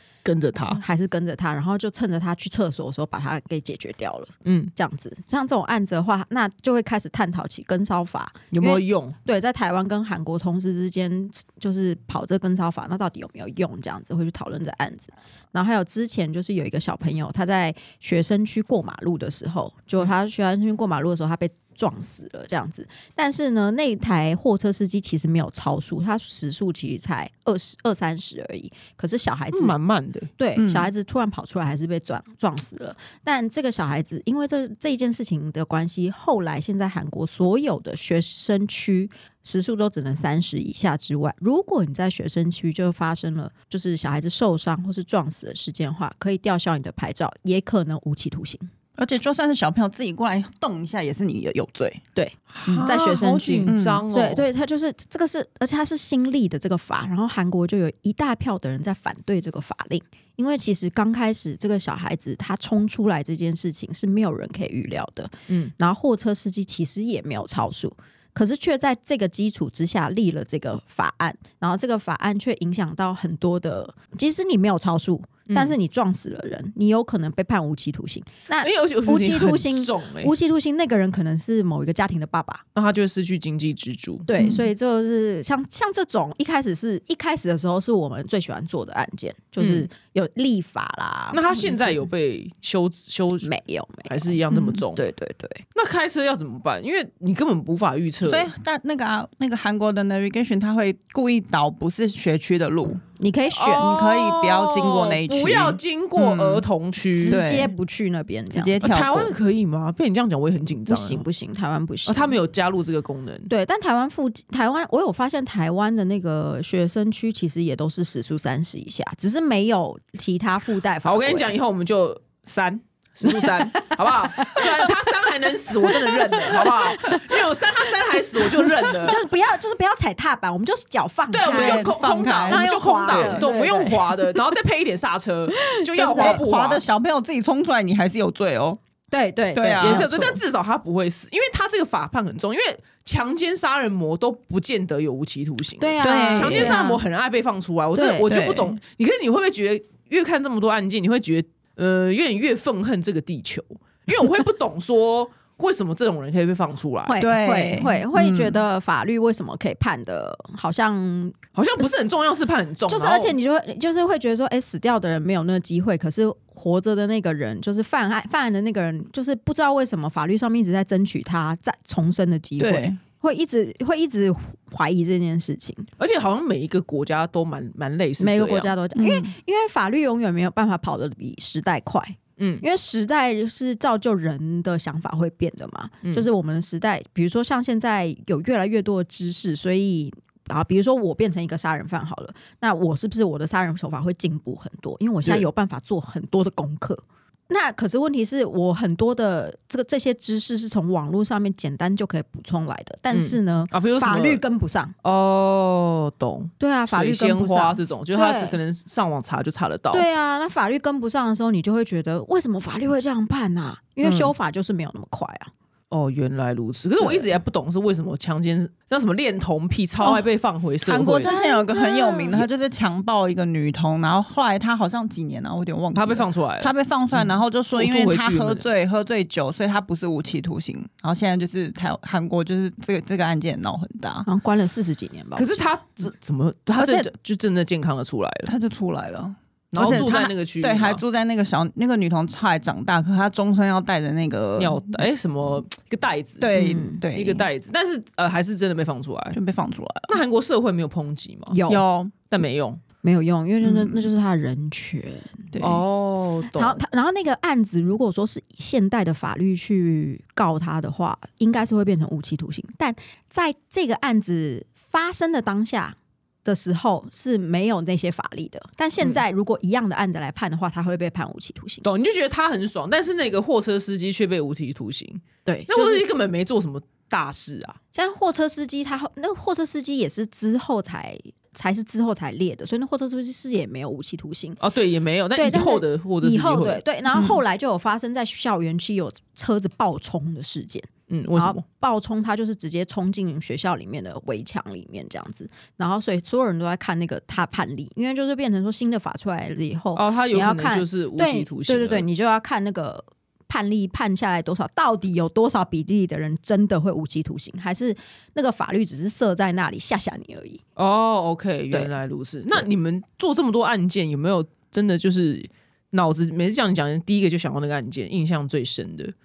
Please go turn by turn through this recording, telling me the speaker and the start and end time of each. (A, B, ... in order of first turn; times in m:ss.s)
0:00.2-0:00.8 A
0:00.7-0:29.8 B
0:04.4-0:04.7 A
0:08.5-0:09.1 A
0:29.5-0:30.3 A
0:30.4-0:48.7 B
0:30.6-0:30.9 C
0:49.0-0:52.0 C
0:52.1-1:22.6 B
0:52.5-0:54.4 A
0:53.6-0:54.0 C
1:15.5-1:15.8 A
1:18.6-1:20.3 A
1:22.7-1:24.3 A
1:24.3-1:32.0 B
1:29.6-1:29.9 A
1:31.3-1:33.5 A
1:33.4-1:35.6 B
1:34.0-1:35.0 A
1:35.7-1:38.5 A
1:38.2-1:43.0 C
1:43.2-1:43.9 B
1:43.5-1:47.4 A
1:43.8-1:46.6 C
1:47.2-1:48.8 B
1:47.2-1:47.7 C
1:48.5-1:49.3 C
1:48.8-1:51.2 A
1:50.9-1:52.4 B
1:52.0-1:53.5 A
1:53.5-2:01.5 B
2:01.0-2:09.2 A
2:03.2-2:05.1 B
2:05.7-2:07.4 B
2:08.4-2:14.4 B
2:11.3-2:16.8 A
2:11.5-2:13.5 C
2:15.6-2:16.4 B
2:16.1-2:18.8 C
2:19.1-2:20.4 B
2:19.5-2:20.1 C
2:19.8-2:37.2 A
2:25.8-2:27.0 B
2:26.0-2:26.8 C
2:27.9-2:28.3 B
2:28.2-2:28.8 C
2:37.1-2:41.4 B
2:37.2-2:38.6 C
2:41.5-2:43.4 A
2:42.9-2:55.9 B
2:52.6-2:53.0 C
2:56.0-2:58.7 A
2:58.2-3:24.9 B
2:58.9-2:59.3 C
3:02.4-3:02.6 A
3:23.1-3:24.4 A
3:25.0-3:30.0 A
3:26.6-3:28.6 B
3:29.9-3:35.5 B
3:34.0-3:34.3 A
3:35.9-3:41.3 A
3:37.0-3:37.3 B
3:40.8-3:54.3 C
3:41.2-3:42.4 B
3:45.9-3:48.6 A
3:54.2-3:55.6 B
3:55.4-3:58.5 A
3:56.8-3:57.1 C
3:58.4-4:04.8 C
3:59.7-4:01.0 A
4:04.6-4:06.5 A
4:06.4-4:07.5 C
4:06.5-4:07.0 B
4:07.1-4:09.4 A
4:09.3-4:10.2 C
4:10.1-4:11.6 A
4:11.5-4:11.8 B
4:11.7-4:12.1 C
4:12.3-4:12.8 A
4:13.0-4:15.5 B
4:13.6-4:14.1 C
4:15.5-4:15.8 C
4:15.6-4:16.8 A
4:16.5-4:31.8 B
4:31.8-4:37.8 A
4:35.4-4:36.0 B
4:37.9-4:44.6 B
4:44.6-4:46.8 A
4:45.4-5:10.6 B
4:51.1-4:51.6 A
4:59.9-5:02.0 A
5:10.8-5:19.1 A